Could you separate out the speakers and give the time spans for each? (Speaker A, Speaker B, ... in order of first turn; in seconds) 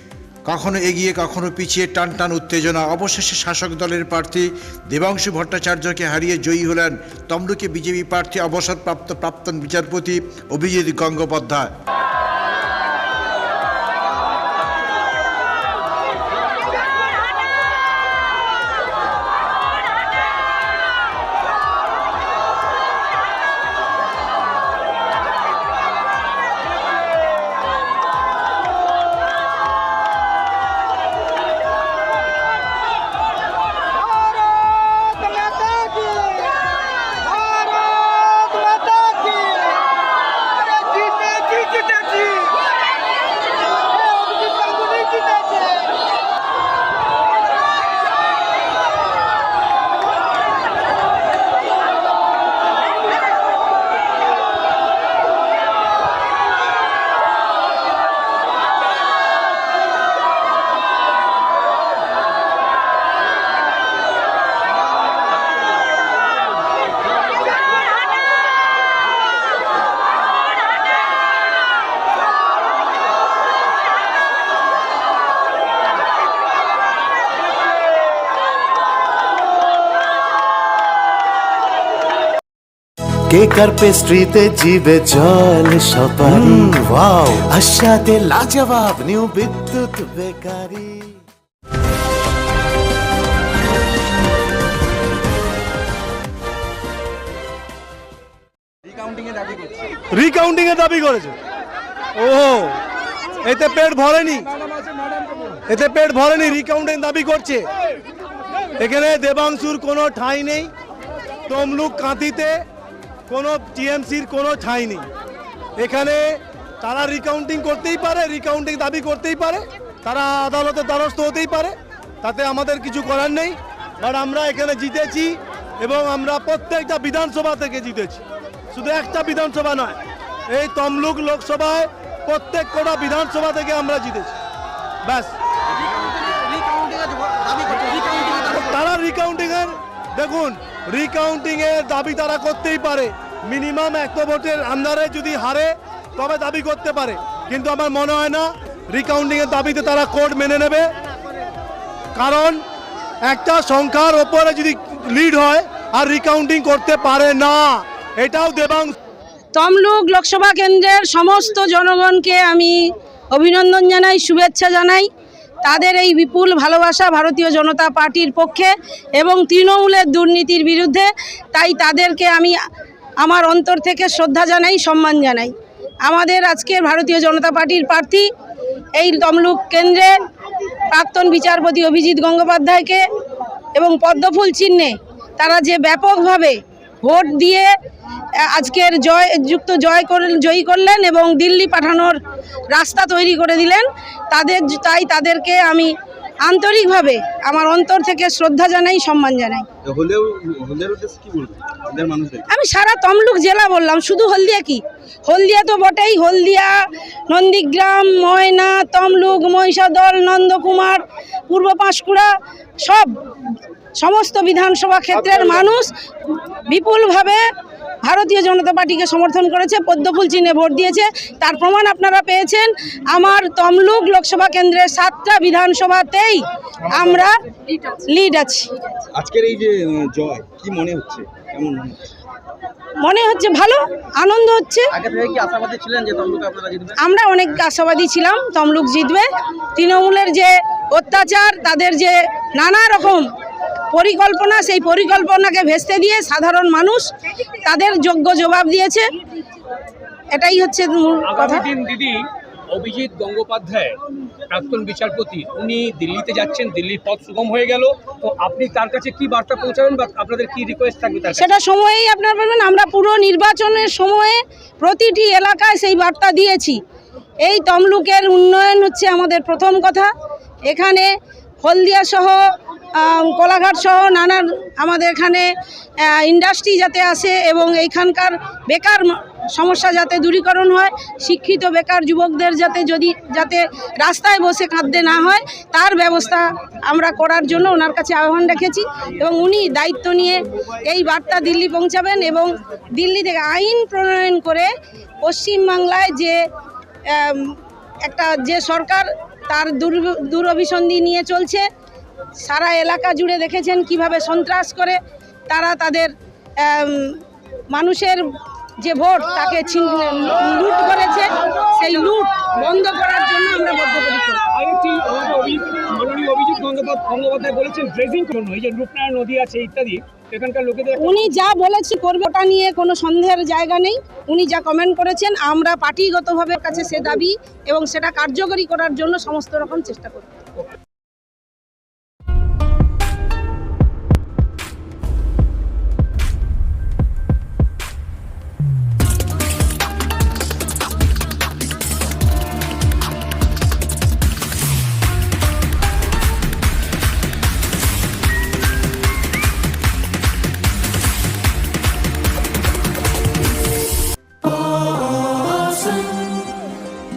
Speaker A: 0.4-11.8
Speaker B: 41.4-42.3, 138.0-138.3, 251.3-261.4, 314.5-321.2
Speaker C: 83.3-91.2, 354.4-356.4
Speaker D: 100.1-101.3, 102.2-102.8, 103.5-104.5, 105.7-107.7, 108.8-110.7, 111.5-112.6, 113.3-115.1, 115.8-128.2, 128.7-130.0, 130.5-134.3, 135.0-135.3, 138.3-150.9, 152.1-152.6, 153.2-158.9
Speaker E: 159.5-165.1, 165.6-172.6, 173.2-175.5, 176.0-178.3, 178.9-180.1, 180.9-183.0, 183.7-187.7, 188.4-192.2, 192.7-195.9, 196.4-199.7, 202.5-213.3, 214.0-217.5, 218.0-229.0, 233.0-235.0, 237.0-243.3, 243.9-247.1, 247.6-249.1, 250.3-251.7, 261.3-266.8, 267.4-270.1, 270.7-271.1, 271.6-294.7, 295.2-296.4, 297.1-301.7, 302.4-314.4, 320.9-330.4
Speaker F: 199.8-202.4, 229.1-232.0, 235.0-236.9